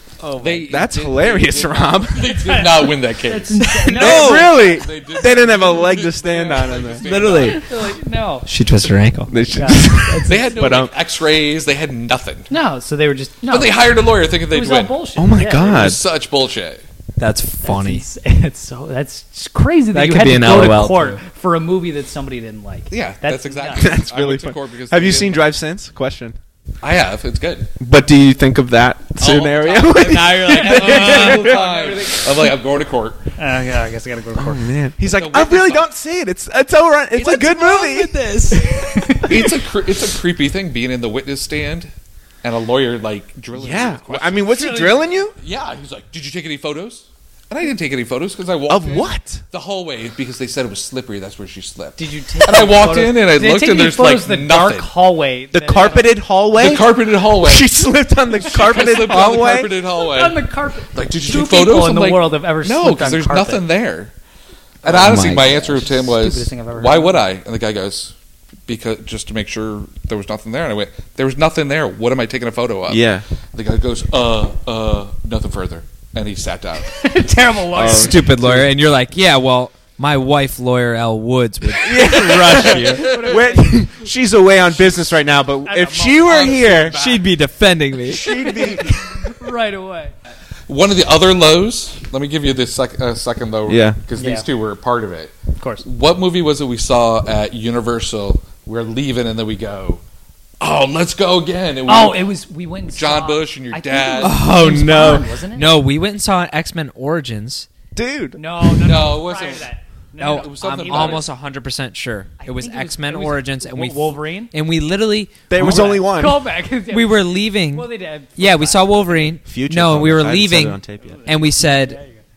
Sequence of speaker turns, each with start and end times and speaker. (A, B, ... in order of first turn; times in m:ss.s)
0:00.2-0:00.7 A
0:00.4-0:07.7 B
0:00.7-0:02.4 C
0:02.4-0:04.6 D
0:03.6-0:04.6 A
0:04.0-0:07.4 C
0:07.0-0:07.6 A
0:07.3-0:08.5 D
0:08.4-0:09.4 A
0:09.3-0:10.9 C
0:09.5-0:10.6 D
0:10.3-0:12.5 B
0:12.5-0:13.8 D
0:13.5-0:16.8 B
0:14.5-0:15.7 D
0:15.2-0:16.0 C
0:17.2-0:18.0 A
0:17.6-0:23.9 D
0:19.9-0:21.2 A
0:22.9-0:25.5 B
0:23.7-0:26.4 C
0:26.8-0:27.7 B
0:27.8-0:31.6 C
0:29.2-0:33.3 B
0:29.9-0:31.6 A
0:30.5-0:32.4 D
0:33.4-0:34.7 D
0:34.3-0:38.2 C
0:35.0-0:35.8 B
0:37.1-0:39.2 A
0:38.5-0:39.6 D
0:39.2-0:41.9 B
0:42.4-0:44.5 B
0:43.5-0:45.3 C
0:44.5-0:45.1 D
0:45.4-0:54.9 B
0:48.7-0:49.4 C
0:52.0-0:56.2 D
0:55.5-0:59.7 C
0:56.5-0:57.7 B
0:58.4-0:58.8 D
0:58.4-1:04.1 B
1:00.0-1:03.6 D
1:04.8-1:08.1 B
1:04.8-1:07.2 D
1:05.0-1:05.6 A
1:08.7-1:17.0 B
1:12.9-1:13.2 C
1:16.8-1:18.2 D
1:17.7-1:18.7 C
1:17.8-1:23.2 A
1:21.7-1:27.0 C
1:22.5-1:23.4 B
1:22.9-1:23.9 D
1:25.6-1:26.8 D
1:26.2-1:27.3 B
1:26.9-1:28.2 A
1:28.0-1:29.0 C
1:28.2-1:30.1 D
1:30.7-1:40.0 B
1:33.7-1:34.0 C
1:34.2-1:34.4 D
1:35.6-1:35.8 D
1:40.6-1:42.3 B
1:41.9-1:45.8 D
1:42.9-1:44.4 B
1:44.2-1:47.7 A
1:44.6-1:45.2 C
1:47.9-1:48.4 C
1:48.4-1:51.3 D
1:48.7-1:49.7 B
1:50.2-1:56.1 A
1:50.2-1:51.3 B
1:52.4-1:54.5 D
1:55.5-1:56.4 C
1:55.6-1:59.2 D
1:56.9-2:02.0 A
1:59.4-2:01.2 C
2:01.0-2:02.2 D